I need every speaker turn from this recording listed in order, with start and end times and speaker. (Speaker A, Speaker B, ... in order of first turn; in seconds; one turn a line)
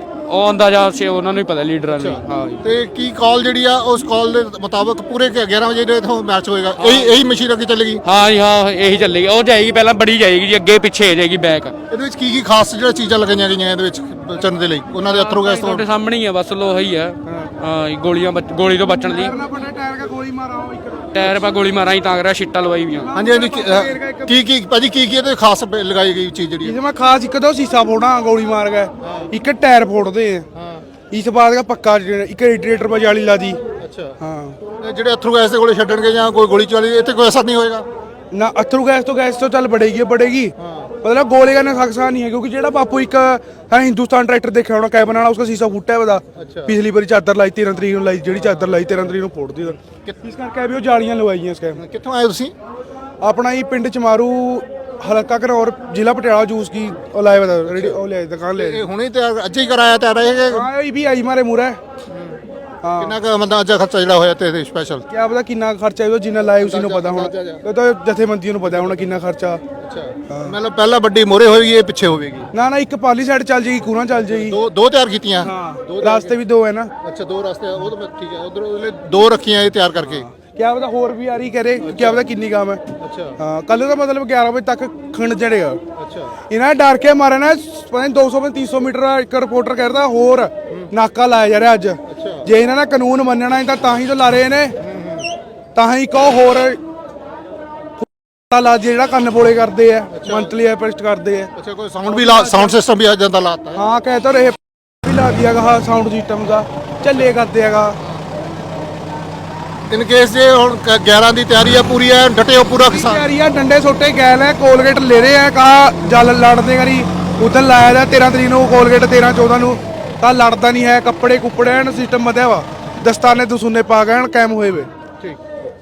Speaker A: 0.3-2.7
Speaker B: 1.9-8.0
Speaker A: 6.8-7.2
Speaker A: 8.0-11.7
Speaker B: 11.9-15.9
Speaker A: 15.0-19.3
Speaker C: 17.3-17.5
Speaker C: 18.9-21.5
Speaker A: 21.1-23.1
Speaker C: 22.9-24.4
Speaker B: 23.1-26.8
Speaker C: 26.6-30.5
Speaker B: 29.0-29.3
Speaker B: 30.5-30.9
Speaker C: 31.1-33.6
Speaker B: 33.8-34.2
Speaker C: 34.2-34.6
Speaker B: 34.8-37.9
Speaker C: 38.3-51.8
Speaker B: 40.6-40.9
Speaker B: 46.4-46.7
Speaker B: 48.4-48.9
Speaker B: 49.7-50.2
Speaker B: 51.8-52.5
Speaker C: 53.2-58.9
Speaker B: 57.6-58.0
Speaker B: 58.5-60.7
Speaker C: 60.5-61.8
Speaker B: 62.1-62.4
Speaker C: 62.8-63.2
Speaker B: 63.0-65.1
Speaker C: 65.1-69.6
Speaker B: 66.6-67.6
Speaker B: 68.7-69.0
Speaker B: 69.8-72.5
Speaker C: 70.3-70.6
Speaker C: 72.5-74.6
Speaker B: 74.2-76.3
Speaker C: 75.4-76.9
Speaker B: 77.0-80.2
Speaker C: 80.0-82.8
Speaker B: 81.8-82.3
Speaker B: 83.0-83.4
Speaker C: 83.4-85.8
Speaker B: 86.0-86.3
Speaker C: 86.5-94.8
Speaker B: 92.1-92.5
Speaker B: 94.8-95.3
Speaker C: 95.8-96.8
Speaker C: 98.0-101.5
Speaker B: 100.1-100.5
Speaker B: 101.6-103.8
Speaker C: 102.1-102.8
Speaker C: 103.8-108.0
Speaker B: 109.9-113.2
Speaker C: 112.9-124.9